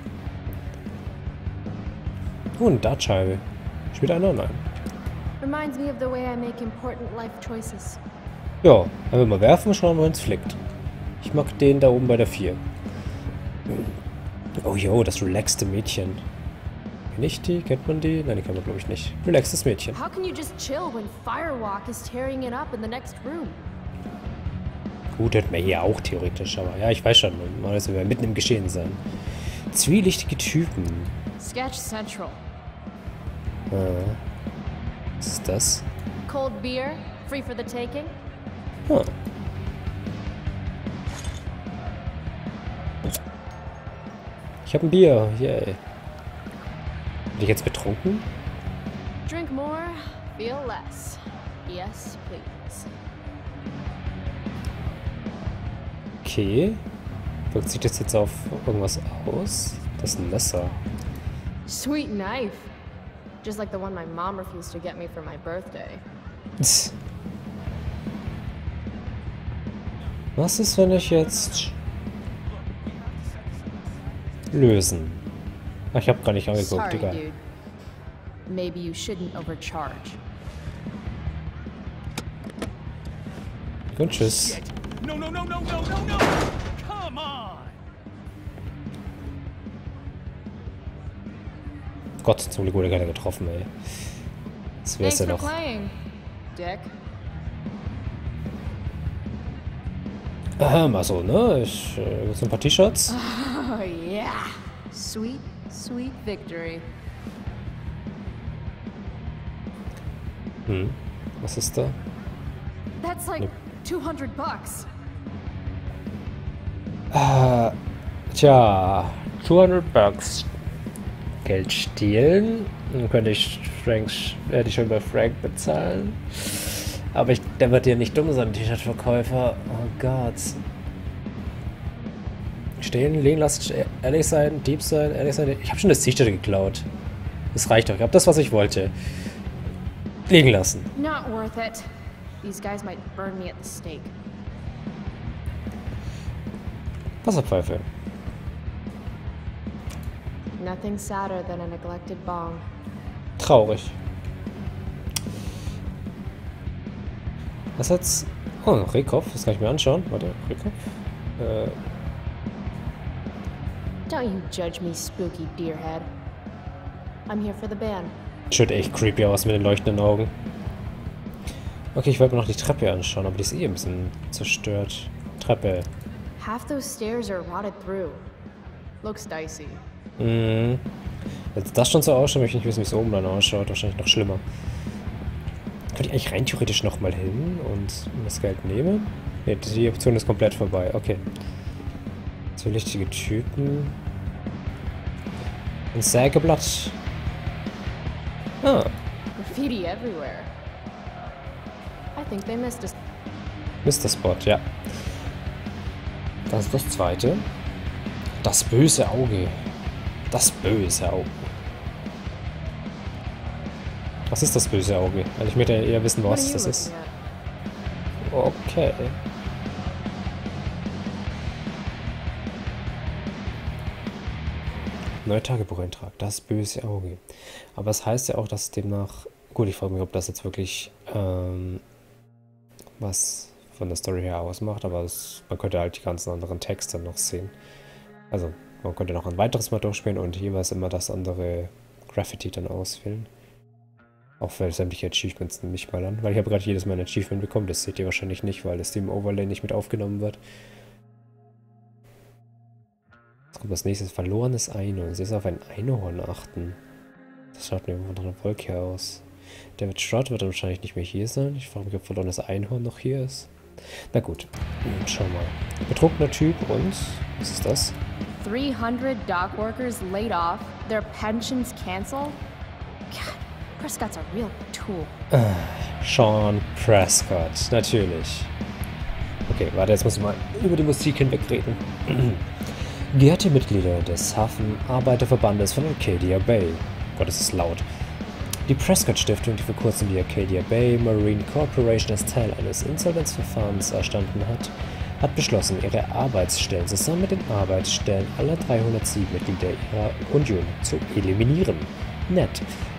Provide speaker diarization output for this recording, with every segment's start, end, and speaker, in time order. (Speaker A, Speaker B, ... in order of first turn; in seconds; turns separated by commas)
Speaker A: 2.6-3.4, Speaker A: 3.9-4.6, Speaker B: 5.4-8.0, Speaker A: 8.6-10.6, Speaker A: 11.2-12.6, Speaker A: 13.7-13.9, Speaker A: 14.6-16.2, Speaker A: 17.1-20.0, Speaker B: 19.9-23.6, Speaker A: 25.1-29.0, Speaker A: 29.7-31.1, Speaker B: 31.4-32.4, Speaker A: 33.7-34.2, Speaker A: 35.2-35.9, Speaker B: 36.2-38.1, Speaker A: 38.9-39.1, Speaker A: 44.6-45.8, Speaker A: 47.4-48.3, Speaker B: 49.2-52.9, Speaker A: 56.2-56.8, Speaker A: 57.5-60.7, Speaker B: 61.6-62.7, Speaker B: 63.4-66.0, Speaker A: 66.6-66.9, Speaker A: 70.3-71.8, Speaker A: 74.5-75.2, Speaker A: 75.9-77.2, Speaker B: 76.6-77.4, Speaker B: 78.5-80.2, Speaker A: 83.9-84.6, Speaker C: 84.2-87.8, Speaker A: 92.2-93.7, Speaker A: 94.8-95.5, Speaker B: 95.0-96.0, Speaker B: 96.5-96.9, Speaker A: 100.6-103.1, Speaker B: 103.1-106.8, Speaker A: 110.7-112.0, Speaker B: 113.0-114.9, Speaker A: 117.1-117.7, Speaker A: 118.3-120.5, Speaker A: 121.4-130.6, Speaker A: 132.8-136.8, Speaker A: 137.5-138.9, Speaker A: 140.3-140.9, Speaker B: 140.9-141.9, Speaker B: 142.4-144.1, Speaker A: 147.2-147.8, Speaker B: 150.6-152.6, Speaker A: 153.4-154.0, Speaker A: 157.8-160.7, Speaker A: 161.4-161.8, Speaker B: 164.1-166.1, Speaker B: 167.3-168.1, Speaker A: 168.5-170.3, Speaker A: 171.9-175.9, Speaker B: 176.4-178.2, Speaker B: 179.0-179.8, Speaker A: 180.2-180.8, Speaker A: 181.5-184.4, Speaker A: 185.9-191.2, Speaker A: 192.6-194.0, Speaker A: 195.9-197.0, Speaker A: 198.6-198.9, Speaker B: 199.3-200.5, Speaker B: 202.1-202.9, Speaker A: 203.8-204.6, Speaker A: 206.5-207.4, Speaker A: 208.4-209.6, Speaker A: 210.3-211.4, Speaker A: 214.3-216.9, Speaker B: 216.2-217.1, Speaker A: 218.2-219.2, Speaker A: 225.2-227.2, Speaker A: 227.8-231.8, Speaker A: 233.0-237.5, Speaker A: 238.3-243.3, Speaker A: 244.4-250.4, Speaker A: 253.5-256.8, Speaker A: 257.5-259.2, Speaker A: 259.8-263.5, Speaker A: 264.1-267.9, Speaker B: 268.4-272.4, Speaker B: 273.1-275.1, Speaker A: 275.3-278.5, Speaker A: 279.5-282.5, Speaker A: 283.1-287.8, Speaker A: 288.7-302.6